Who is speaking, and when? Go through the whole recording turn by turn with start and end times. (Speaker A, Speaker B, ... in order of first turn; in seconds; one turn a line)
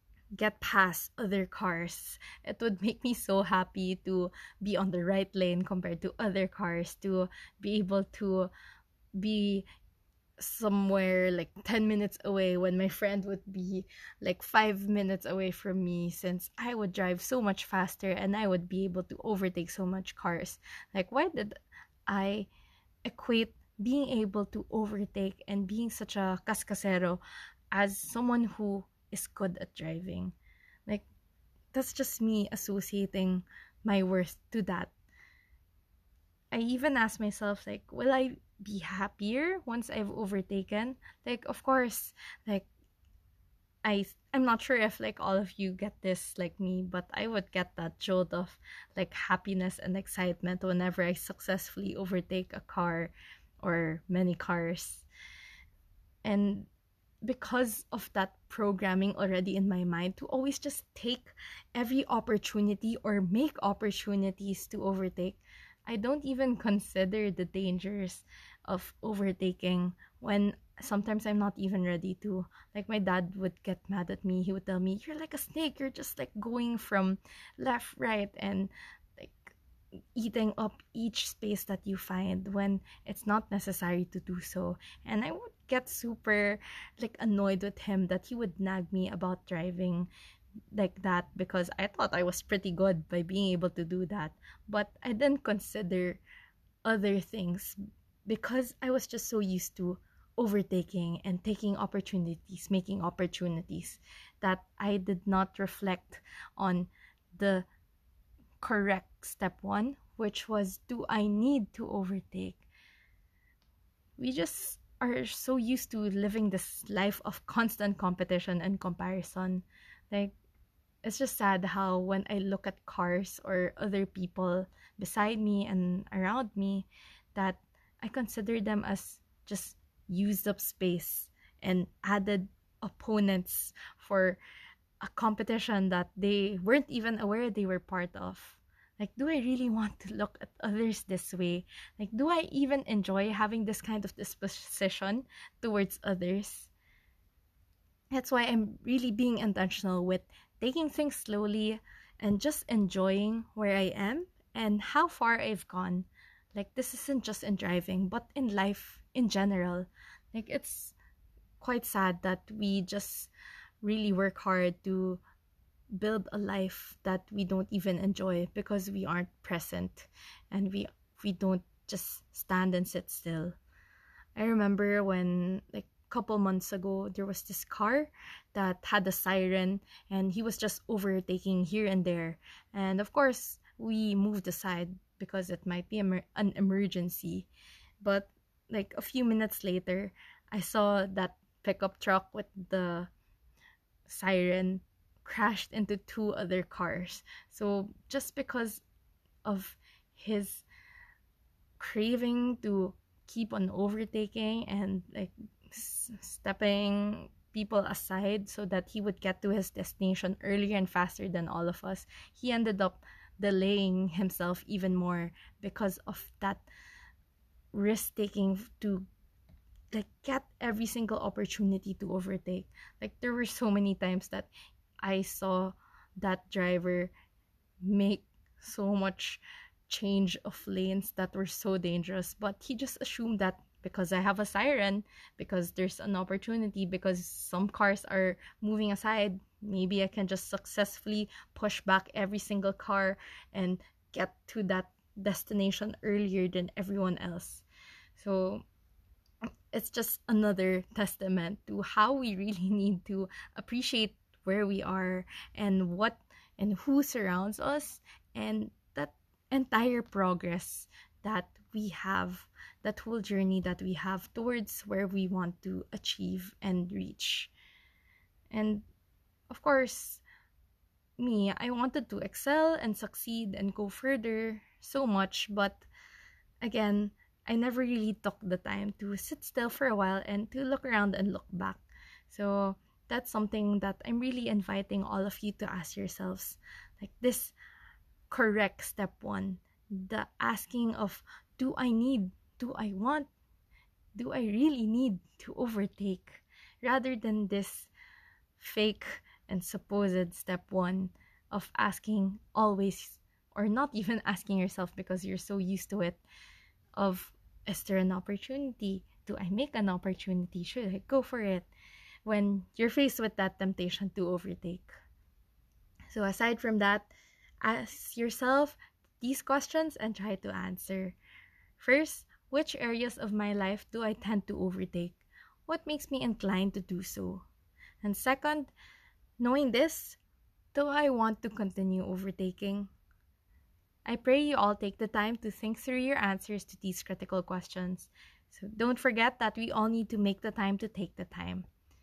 Speaker A: 0.3-8.5
Speaker A: 9.1-9.6
Speaker A: 10.4-22.5
Speaker A: 23.0-27.2
Speaker A: 27.7-30.3
Speaker A: 31.7-34.9
Speaker A: 36.5-42.7
Speaker A: 43.8-55.0
Speaker A: 56.2-56.7
Speaker A: 57.2-79.5
Speaker A: 80.2-90.1
Speaker A: 90.7-96.2
Speaker A: 96.8-107.7
Speaker A: 108.6-112.6
Speaker A: 114.2-120.3
Speaker A: 121.0-134.4
Speaker A: 135.0-146.7
Speaker A: 148.1-160.9
Speaker A: 161.6-163.3
Speaker A: 163.8-165.2
Speaker A: 165.9-173.6
Speaker A: 174.3-187.5
Speaker A: 188.0-193.1
Speaker A: 194.1-198.8
Speaker A: 199.4-200.6
Speaker A: 201.8-216.6
Speaker A: 217.7-219.1
Speaker A: 219.9-224.5
Speaker A: 225.0-227.1
Speaker A: 227.8-247.6
Speaker A: 248.2-248.6
Speaker A: 249.7-267.5
Speaker A: 268.5-268.8
Speaker A: 269.5-270.2
Speaker A: 271.2-275.9
Speaker A: 276.6-287.5
Speaker A: 288.3-293.3
Speaker A: 294.1-297.9
Speaker A: 298.6-306.2
Speaker A: 306.9-311.7
Speaker A: 312.2-314.9
Speaker A: 316.1-321.1
Speaker A: 321.8-327.4
Speaker A: 328.0-328.7
Speaker A: 329.4-330.2
Speaker A: 330.7-332.9
Speaker A: 334.1-341.6